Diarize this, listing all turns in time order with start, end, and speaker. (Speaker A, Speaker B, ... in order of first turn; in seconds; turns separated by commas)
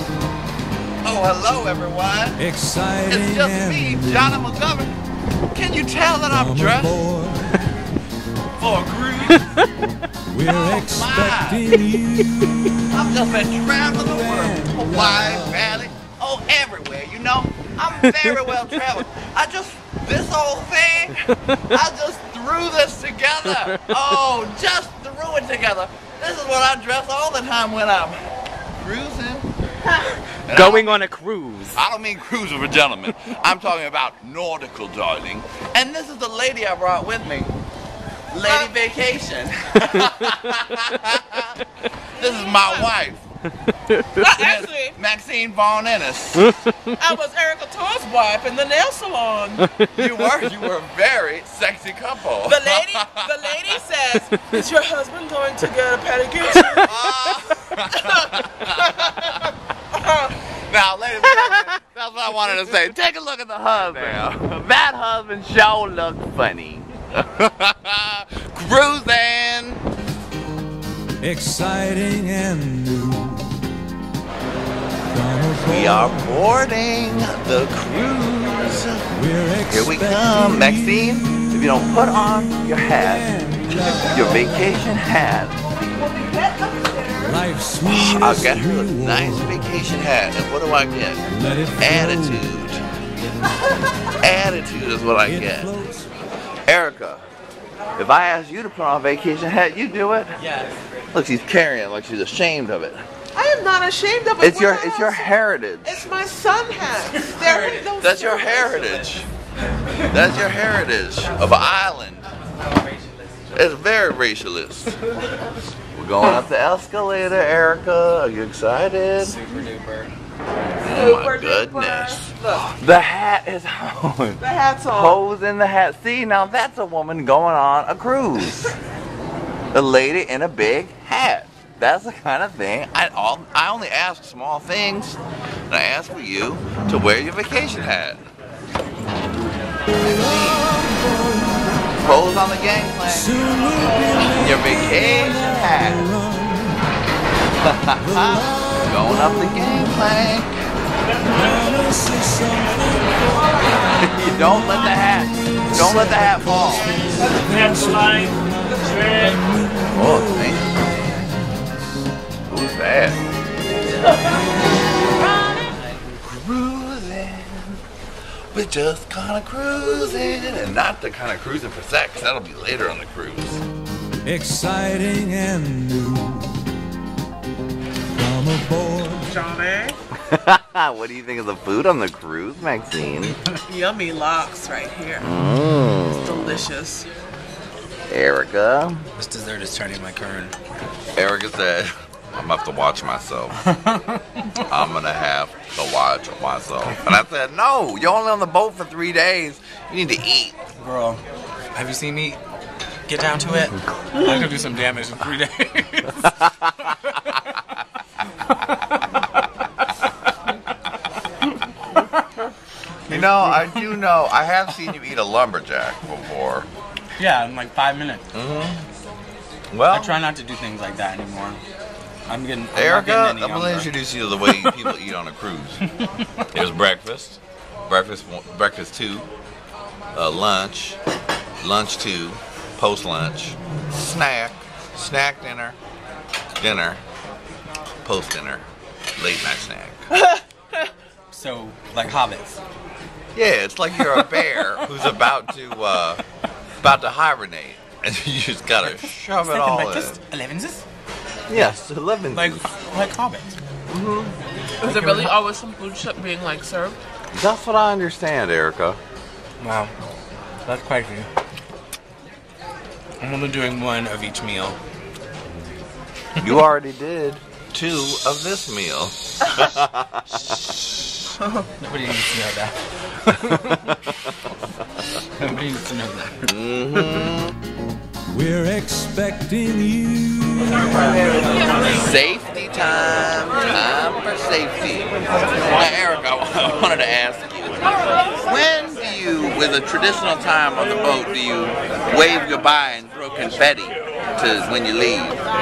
Speaker A: 1.0-2.5, Speaker B: 2.5-3.1, Speaker A: 3.1-4.9, Speaker A: 5.5-7.0, Speaker B: 6.5-7.5, Speaker A: 8.6-9.5, Speaker B: 10.3-10.9, Speaker A: 10.4-11.7, Speaker B: 11.7-12.8, Speaker A: 12.9-28.2, Speaker C: 18.1-18.8, Speaker A: 28.8-29.5, Speaker A: 30.5-31.0, Speaker C: 30.5-31.8, Speaker A: 31.7-37.5, Speaker A: 38.3-41.6, Speaker A: 42.2-43.3, Speaker D: 42.2-42.9, Speaker D: 44.1-45.0, Speaker A: 44.2-46.6, Speaker D: 46.9-49.7, Speaker C: 49.6-50.0, Speaker A: 49.9-53.7, Speaker D: 52.4-56.9, Speaker A: 56.6-59.4, Speaker D: 57.9-59.4, Speaker D: 60.0-60.3, Speaker A: 60.5-69.8, Speaker D: 63.8-64.1, Speaker B: 71.2-73.6, Speaker B: 75.1-75.6, Speaker A: 75.6-85.6, Speaker B: 87.3-88.0, Speaker A: 87.8-91.2, Speaker B: 91.5-91.8, Speaker A: 91.8-92.8, Speaker A: 94.2-95.8, Speaker B: 95.7-96.0, Speaker A: 96.7-97.2, Speaker A: 97.9-100.4, Speaker C: 100.4-100.8, Speaker A: 101.1-103.0, Speaker D: 103.3-105.3, Speaker A: 104.4-106.1, Speaker D: 105.8-109.0, Speaker C: 107.3-107.7, Speaker A: 108.0-109.3, Speaker A: 110.1-112.3, Speaker A: 113.5-115.0, Speaker A: 115.9-119.4, Speaker C: 119.2-120.1, Speaker A: 120.8-128.7, Speaker D: 120.9-122.6, Speaker D: 124.4-125.2, Speaker A: 129.7-138.2, Speaker A: 139.9-141.0, Speaker A: 141.9-143.6, Speaker B: 143.9-144.3, Speaker A: 144.2-146.1, Speaker A: 147.6-150.6, Speaker B: 151.3-152.9, Speaker A: 153.9-157.1, Speaker B: 157.3-158.1, Speaker D: 157.4-158.3, Speaker D: 158.9-159.3, Speaker A: 159.9-161.5, Speaker A: 162.5-163.2, Speaker A: 166.2-167.8, Speaker A: 168.5-173.6, Speaker B: 174.2-176.6, Speaker B: 178.1-179.2, Speaker D: 179.2-180.0, Speaker A: 180.2-183.4, Speaker D: 183.7-185.3, Speaker A: 185.2-186.7, Speaker D: 186.2-187.1, Speaker A: 188.1-189.1, Speaker C: 189.2-190.5, Speaker A: 191.2-193.6, Speaker A: 194.5-200.6, Speaker C: 200.8-201.2, Speaker C: 201.7-202.4, Speaker C: 203.1-206.2, Speaker A: 213.1-216.7, Speaker C: 213.1-213.7, Speaker C: 217.2-218.2, Speaker A: 218.3-218.8, Speaker A: 219.7-220.2, Speaker C: 219.9-221.6, Speaker C: 222.3-223.9, Speaker A: 222.7-225.8, Speaker A: 226.5-229.3, Speaker A: 230.1-231.0, Speaker A: 231.6-235.8, Speaker A: 236.6-237.0, Speaker A: 238.0-238.6, Speaker A: 239.2-240.1, Speaker D: 240.2-240.4, Speaker C: 241.3-242.6, Speaker A: 243.3-246.2, Speaker A: 246.8-250.2, Speaker C: 248.8-250.8, Speaker A: 251.5-252.7, Speaker C: 252.3-253.6, Speaker A: 253.9-254.3, Speaker D: 254.8-257.0, Speaker C: 254.8-255.3, Speaker A: 257.3-259.0, Speaker C: 259.6-259.9, Speaker C: 260.6-261.3, Speaker C: 263.2-264.8, Speaker A: 266.4-270.4, Speaker C: 271.8-273.9, Speaker C: 275.4-276.5, Speaker A: 276.5-277.6, Speaker B: 278.3-280.8, Speaker A: 281.8-295.4